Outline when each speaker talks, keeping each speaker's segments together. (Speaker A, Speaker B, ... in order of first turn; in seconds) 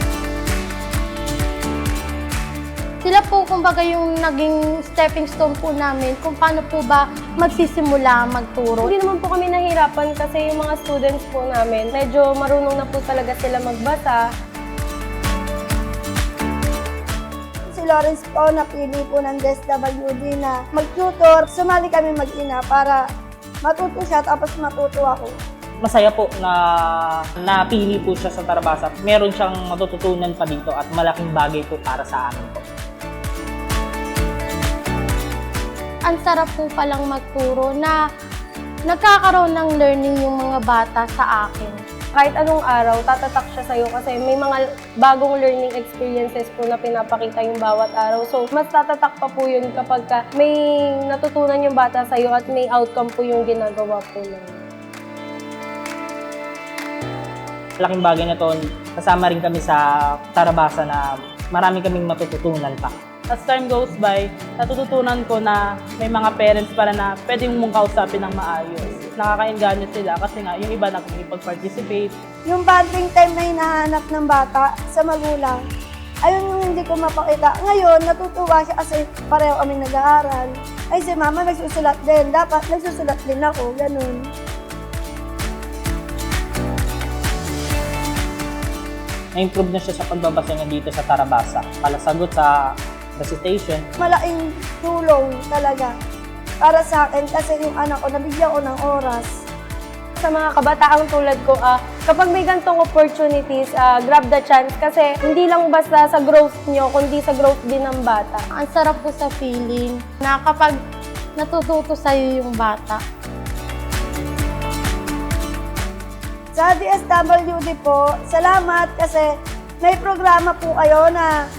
Speaker A: 3.0-8.9, 36.1-38.0, 38.9-41.8, 108.5-110.8, 111.4-113.0
Speaker B: 8.8-14.2, 42.1-54.6, 100.2-108.4
Speaker C: 17.7-23.0, 23.6-25.3, 72.5-75.6, 76.2-84.3, 94.0-95.9, 96.6-99.3, 116.5-119.3, 119.8-121.3
Speaker D: 25.8-32.6, 57.8-63.0, 89.3-93.8
Speaker E: 63.3-72.1